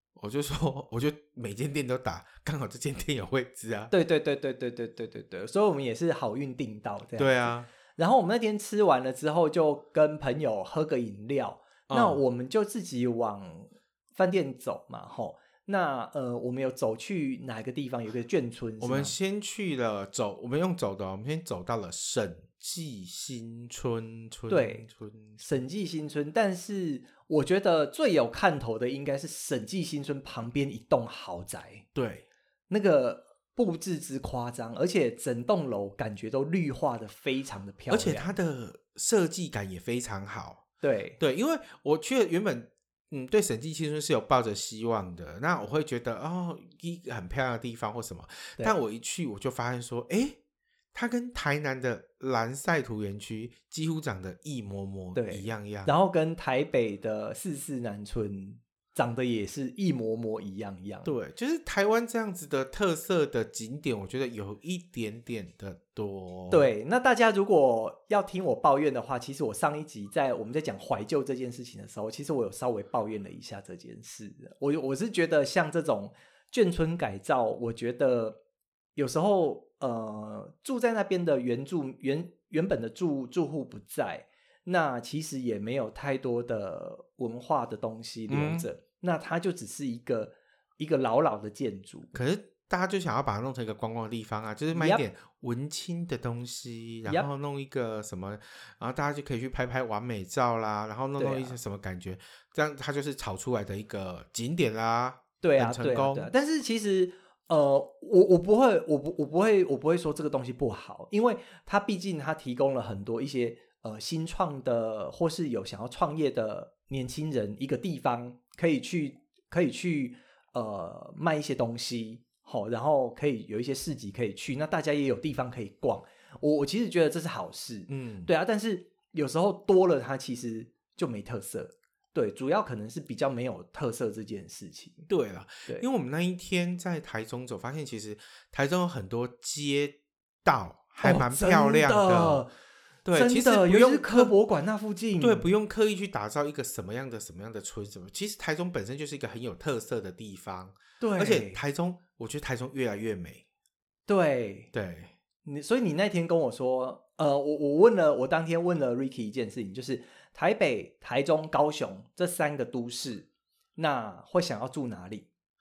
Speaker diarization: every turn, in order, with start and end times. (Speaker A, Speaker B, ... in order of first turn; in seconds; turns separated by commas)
Speaker A: 0.2-3.9, Speaker B: 3.9-19.1, Speaker A: 7.2-7.7, Speaker A: 11.9-12.2, Speaker A: 18.8-25.4, Speaker B: 24.5-24.9, Speaker B: 25.4-31.8, Speaker A: 31.9-32.2, Speaker B: 32.7-38.3, Speaker A: 37.9-40.6, Speaker B: 40.8-41.2, Speaker A: 41.2-50.4, Speaker A: 50.9-55.9, Speaker B: 55.1-61.1, Speaker A: 61.0-66.7, Speaker B: 66.5-78.4, Speaker B: 79.0-92.1, Speaker A: 88.3-88.7, Speaker A: 92.1-106.3, Speaker B: 94.7-95.0, Speaker B: 101.2-101.6, Speaker B: 105.4-135.1, Speaker A: 127.9-128.3, Speaker A: 135.1-142.4, Speaker B: 141.0-142.5, Speaker A: 143.0-144.3, Speaker B: 143.1-145.4, Speaker A: 145.2-153.4, Speaker B: 151.0-151.6, Speaker B: 154.1-154.7, Speaker A: 154.7-155.1, Speaker B: 155.4-165.3